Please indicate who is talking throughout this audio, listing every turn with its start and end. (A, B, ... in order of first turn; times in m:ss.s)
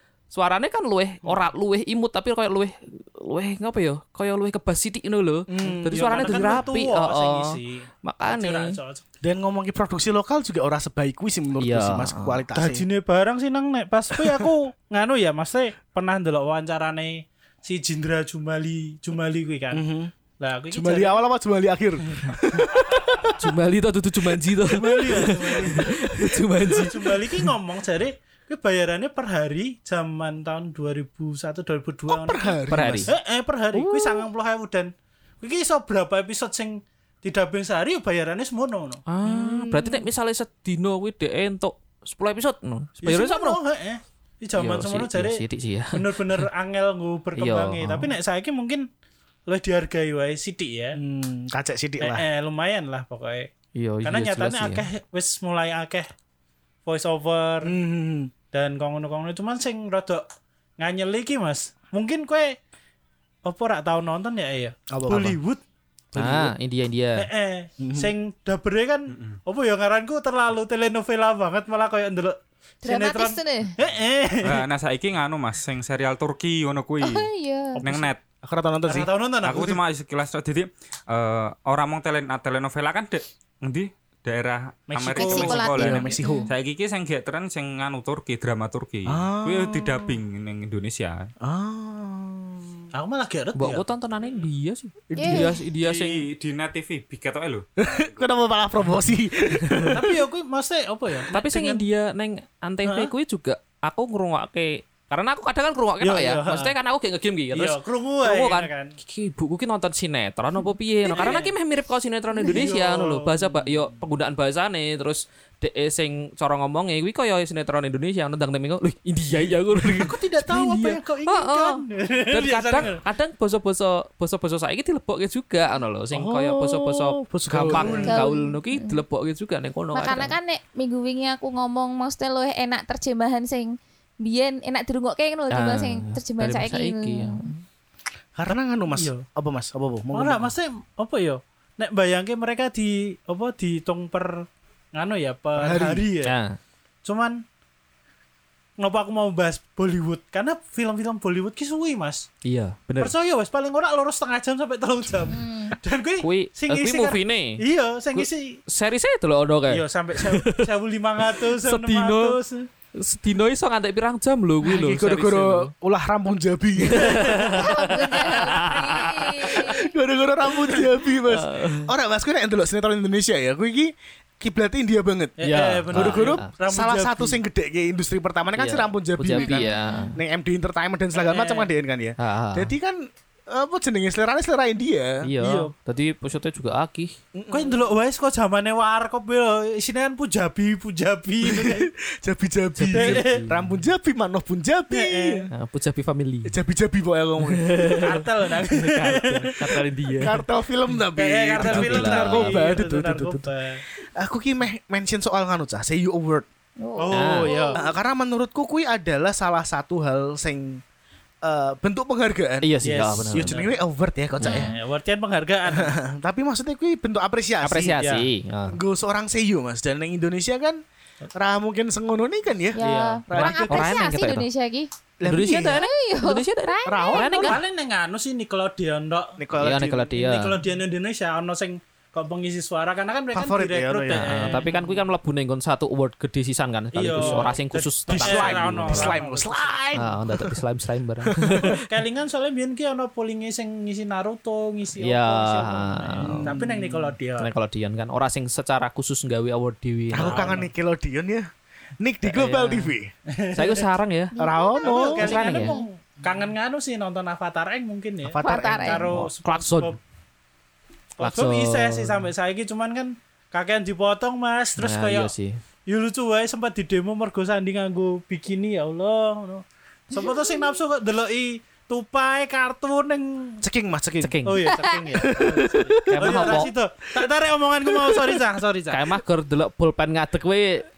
0:00.3-0:08.8 A
0:05.5-0:06.6 B
0:05.6-0:09.0 C
0:09.2-0:12.8 B
0:11.6-0:12.4 A
0:12.5-0:19.8 C
0:14.2-0:14.5 B
0:19.7-0:20.1 B
0:20.4-0:21.2 C
0:20.7-0:23.3 B
0:22.9-0:27.5 A
0:24.7-0:25.9 C
0:24.8-0:25.9 B
0:26.7-0:39.0 C
0:32.1-0:33.1 B
0:32.7-0:33.1 A
0:33.7-0:34.2 A
0:39.1-0:43.6 A
0:39.2-0:40.0 B
0:43.0-0:45.4 C
0:44.6-0:46.4 A
0:45.9-0:48.8 C
0:47.4-0:48.1 A
0:49.5-0:51.0 C
0:50.9-0:52.2 B
0:52.0-0:53.5 C
0:53.8-0:54.9 A
0:54.0-0:56.1 C
0:56.8-0:57.7 C
0:57.6-0:58.3 B
0:58.5-1:00.2 C
1:00.8-1:02.6 C
1:03.4-1:05.6 C
1:04.9-1:05.4 B
1:06.1-1:06.5 B
1:06.1-1:07.3 A
1:07.2-1:14.6 C
1:07.8-1:08.1 B
1:09.1-1:09.4 D
1:12.8-1:13.7 E
1:14.4-1:18.2 D
1:17.0-1:17.8 E
1:17.8-1:18.1 C
1:18.4-1:19.1 B
1:18.9-1:19.8 C
1:19.4-1:31.3 D
1:24.9-1:25.6 C
1:25.1-1:26.5 E
1:25.7-1:26.5 B
1:29.1-1:30.1 B
1:31.4-1:32.8 B
1:32.9-1:33.8 C
1:33.6-1:36.2 A
1:35.1-1:35.5 B
1:35.2-1:35.6 E
1:35.8-1:38.0 D
1:37.8-1:40.1 B
1:39.9-1:41.8 C
1:41.3-2:10.3 A
1:42.8-1:43.1 C
1:46.0-1:46.7 C
1:47.5-1:48.9 C
1:51.1-1:51.5 C
1:52.4-1:53.8 C
1:59.8-2:03.0 C
2:06.1-2:08.2 B
2:07.7-2:08.2 C
2:08.1-2:09.0 E
2:09.9-2:17.4 E
2:15.5-2:17.6 A
2:18.4-2:20.5 B
2:18.9-2:19.2 C
2:20.1-2:26.3 C
2:25.6-2:26.0 B
2:26.2-2:26.6 A
2:27.0-2:27.4 C
2:28.8-2:32.3 C
2:32.4-2:33.1 A
2:33.0-2:38.6 C
2:35.3-2:35.7 E
2:36.2-2:37.6 A
2:38.2-2:40.7 A
2:39.7-2:42.7 C
2:41.3-2:42.4 A
2:42.9-2:45.7 A
2:44.6-2:47.4 B
2:46.8-2:49.7 A
2:47.1-2:47.5 C
2:47.5-2:49.9 E
2:49.4-2:55.4 B
2:50.6-2:51.9 A
2:55.4-2:57.4 C
2:55.4-2:56.5 A
2:55.9-3:05.2 B
2:58.6-3:00.2 A
2:59.4-3:00.1 E
3:01.1-3:01.7 C
3:02.2-3:02.7 A
3:05.2-3:07.1 A
3:05.4-3:05.7 C
3:07.3-3:07.9 B
3:07.5-3:11.9 C
3:11.4-3:15.5 B
3:12.8-3:13.8 A
3:12.9-3:13.4 C
3:14.9-3:15.5 C
3:15.5-3:16.6 A
3:16.4-3:18.1 B
3:17.4-3:20.4 A
3:17.9-3:19.8 C
3:20.2-3:23.5 B
3:21.2-3:23.8 C
3:21.6-3:22.6 A
3:24.1-3:26.4 B
3:26.8-3:27.8 E
3:27.0-3:27.8 C
3:27.1-3:27.6 A
3:27.7-3:30.8 B
3:31.4-3:32.7 B
3:32.6-3:33.6 A
3:32.8-3:33.7 C
3:33.3-3:34.7 B
3:34.4-3:35.9 C
3:34.4-3:34.7 E
3:35.7-3:38.0 B
3:37.6-3:38.8 A
3:38.0-3:38.3 C
3:38.7-3:40.8 B
3:41.3-3:44.0 B
3:42.7-3:44.9 E
3:42.8-3:43.7 C
3:43.7-3:44.5 A
3:45.2-3:45.9 B
3:45.2-3:47.6 A
3:45.5-3:47.6 E
3:46.8-3:47.6 B
3:47.4-3:49.4 C
3:49.4-3:50.1 B
3:49.6-3:50.6 A
3:50.1-3:55.0 C
3:53.3-3:54.6 B
3:54.1-3:59.2 A
3:56.9-3:59.8 C
3:57.2-3:57.5 B
3:58.1-4:00.6 B
3:59.9-4:01.8 A
4:01.3-4:01.7 B
4:01.5-4:07.5 C
4:05.0-4:06.6 A
4:06.2-4:07.1 B
4:07.4-4:10.6 A
4:10.1-4:11.5 B
4:10.2-4:10.7 C
4:12.0-4:13.1 B
4:12.2-4:12.9 A
4:13.3-4:13.8 C
4:13.5-4:14.3 A
4:14.4-4:15.8 E
4:14.4-4:15.4 B
4:14.8-4:20.0 C
4:15.2-4:15.8 A
4:18.2-4:19.1 B
4:18.4-4:19.1 E
4:19.1-4:20.0 A
4:21.2-4:25.3 C
4:21.2-4:22.2 A
4:24.8-4:25.6 A
4:25.9-4:33.6 C
4:30.2-4:30.6 E
4:33.6-4:34.4 B
4:34.2-4:34.7 A
4:34.4-4:39.1 C
4:34.7-4:35.0 E
4:35.1-4:36.6 B
4:36.0-4:36.7 A
4:37.9-4:38.4 B
4:38.9-4:40.9 A